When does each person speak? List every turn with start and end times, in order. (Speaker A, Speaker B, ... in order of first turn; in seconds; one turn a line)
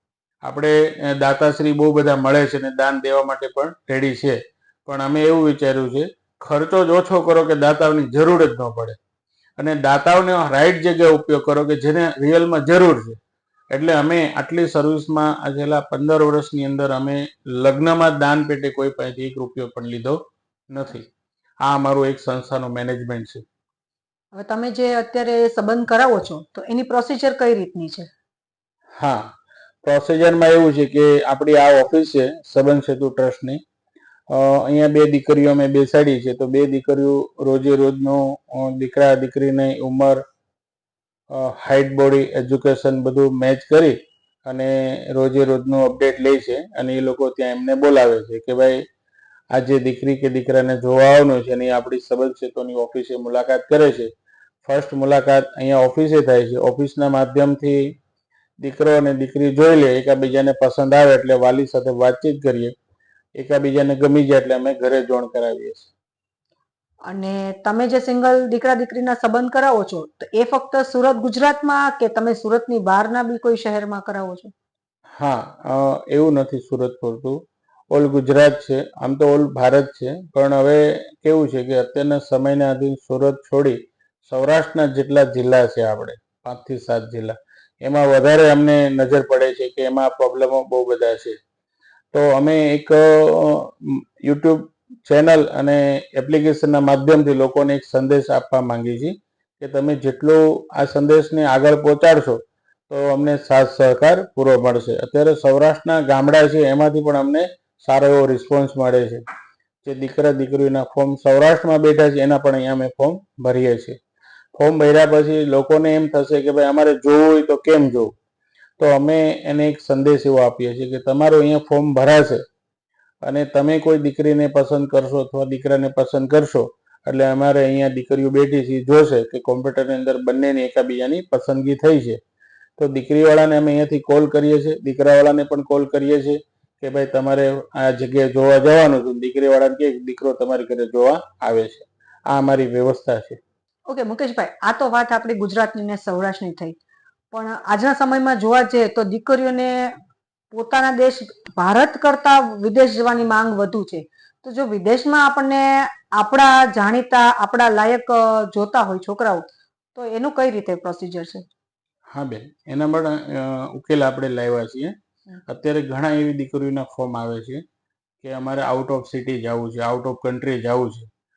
Speaker A: 0.5-9.0
Speaker A: 9.6-13.2
Speaker A: 13.7-20.2
Speaker A: 20.7-21.1
Speaker A: 21.7-23.4
Speaker B: 24.4-28.1
Speaker A: 29.0-29.3
Speaker A: 29.9-33.6
Speaker A: 34.3-40.2
Speaker A: 41.3-48.8
Speaker A: 49.5-54.1
Speaker A: 54.6-57.9
Speaker A: 58.6-62.7
Speaker A: 63.4-65.9
Speaker B: 67.1-74.5
Speaker A: 75.2-77.4
Speaker A: 77.9-91.4
Speaker A: 92.1-109.2
Speaker A: 109.8-114.0
Speaker A: 114.6-118.1
Speaker A: 118.8-122.4
Speaker A: 123.2-132.2
Speaker A: 132.8-143.4
Speaker B: 143.9-146.8
Speaker B: 147.3-149.8
Speaker B: 150.5-159.4
Speaker B: 159.9-161.4
Speaker A: 162.1-164.9
Speaker A: 165.5-167.6
Speaker A: 168.2-171.1